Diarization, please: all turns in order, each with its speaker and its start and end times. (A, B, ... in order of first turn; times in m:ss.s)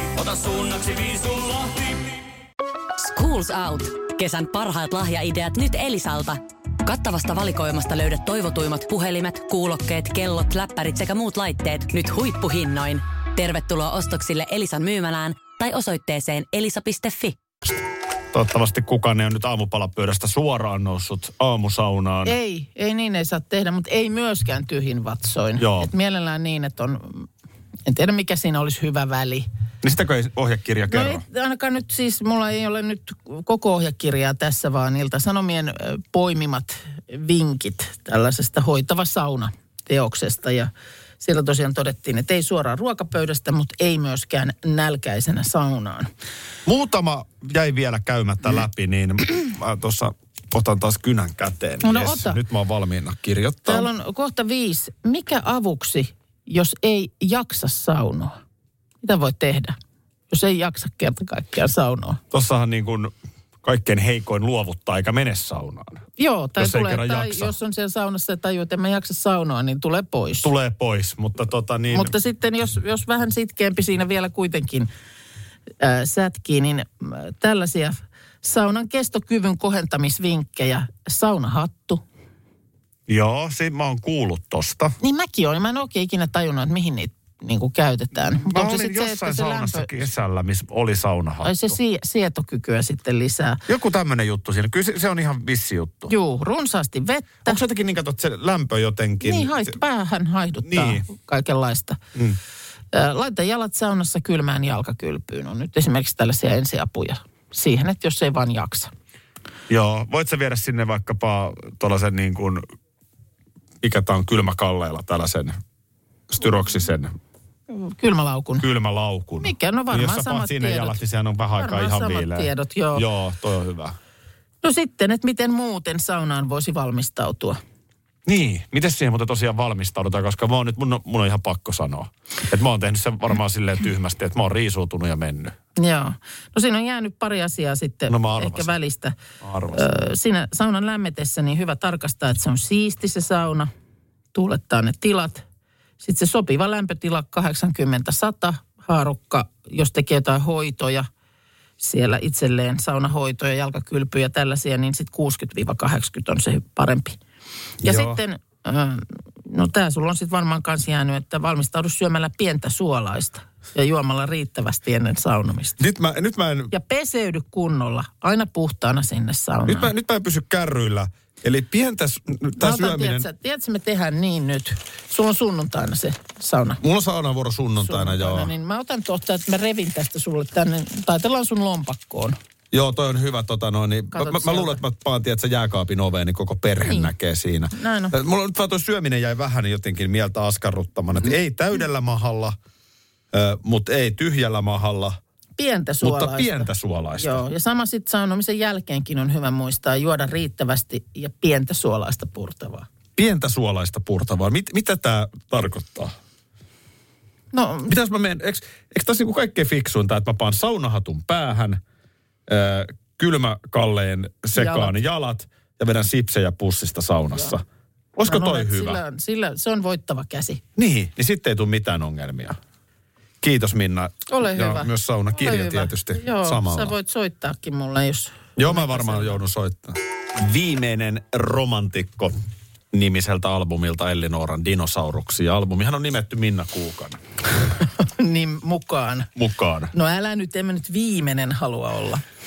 0:03.0-0:17.4 A
0:18.3-0:22.4 B
0:22.2-0:27.3 C
0:25.6-0:25.9 B
0:27.9-0:29.5 C
0:29.8-0:31.2 B
0:30.9-0:46.1 C
0:46.7-0:53.9 B
0:51.8-0:52.4 C
0:53.7-0:58.4 C
0:59.0-0:59.8 C
1:00.3-1:02.2 C
1:02.3-1:03.1 B
1:03.6-1:06.0 B
1:06.2-1:10.5 C
1:06.6-1:07.5 B
1:10.4-1:12.1 B
1:11.9-1:14.9 C
1:15.8-1:22.0 C
1:23.1-1:25.0 B
1:25.0-1:29.9 C
1:28.4-1:31.8 B
1:31.4-1:33.6 C
1:33.7-1:36.1 B
1:36.1-1:37.6 C
1:37.4-1:39.7 B
1:39.2-1:42.0 C
1:40.6-1:41.0 B
1:42.9-1:48.9 C
1:49.7-1:52.6 B
1:53.8-1:55.6 B
1:56.3-1:57.1 B
1:57.7-1:58.7 C
1:58.6-2:04.0 B
1:59.4-2:01.0 C
2:01.6-2:03.0 C
2:04.6-2:07.6 C
2:08.3-2:15.6 B
2:15.8-2:19.2 C
2:18.1-2:18.7 B
2:19.4-2:19.9 B
2:19.7-2:23.7 C
2:24.3-2:25.4 C
2:26.0-2:31.1 C
2:31.8-2:37.2 C
2:37.8-2:38.2 B
2:37.8-2:45.8 C
2:45.8-2:46.7 B
2:46.7-2:49.9 C
2:49.7-2:53.3 B
2:52.6-2:56.8 C
2:56.8-2:58.5 B
2:57.8-3:02.4 C
3:02.7-3:12.6 B
3:04.1-3:04.8 C
3:06.8-3:07.1 C
3:07.7-3:08.2 C
3:13.3-3:15.2 B
3:15.6-3:22.9 C
3:16.0-3:17.4 B
3:23.2-3:26.1 B
3:27.5-3:27.9 C
3:27.9-3:31.8 B
3:32.5-3:37.6 B
3:34.6-3:34.9 C
3:38.2-3:39.0 B
3:38.2-3:40.6 C
3:40.8-3:42.6 B
3:43.4-3:46.9 B
3:44.3-3:49.4 C
3:48.6-3:52.4 B
3:52.9-3:57.2 B
3:58.0-3:59.3 C
3:59.4-3:59.9 B
3:59.9-4:02.2 C